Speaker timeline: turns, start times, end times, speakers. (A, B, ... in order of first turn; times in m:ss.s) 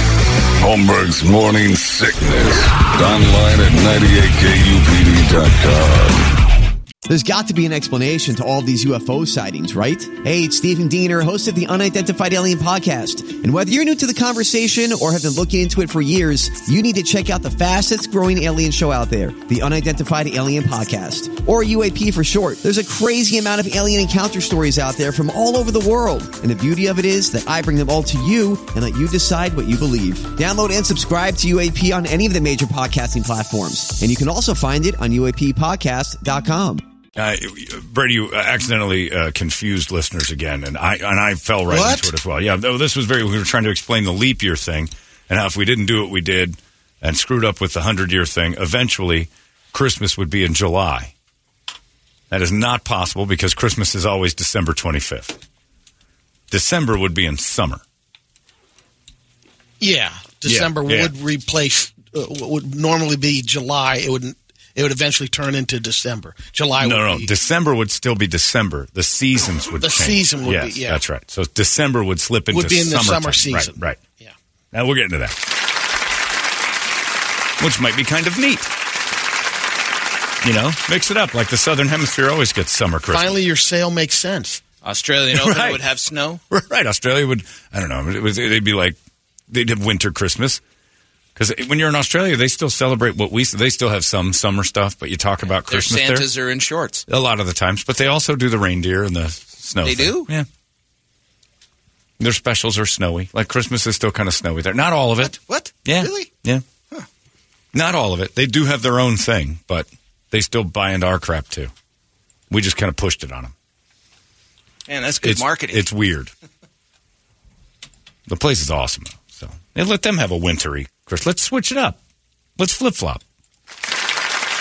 0:00.6-0:06.3 A
0:07.1-0:36.8 B
0:37.2-0:51.1 C
0:41.7-0:42.1 D
0:52.3-0:55.4 C
0:56.5-0:57.8 C
0:59.8-1:07.3 D
1:00.4-1:01.1 C
1:06.8-1:14.0 C
1:09.8-1:11.0 D
1:12.5-1:14.3 D
1:14.7-1:15.4 C
1:17.6-1:18.7 C
1:20.4-1:23.4 C
1:23.1-1:24.6 D
1:24.8-1:26.4 E
1:25.3-1:25.8 C
1:26.5-1:29.0 C
1:29.5-1:30.6 C
1:31.4-1:36.3 C
1:35.5-1:37.1 E
1:37.1-1:40.5 C
1:39.8-1:40.3 E
1:42.2-1:45.3 C
1:45.2-1:46.3 E
1:45.9-1:46.6 C
1:47.7-1:51.7 C
1:52.5-1:53.5 C
1:54.9-1:55.9 E
1:55.2-1:56.3 C
1:58.3-2:02.0 C
2:02.6-2:03.2 C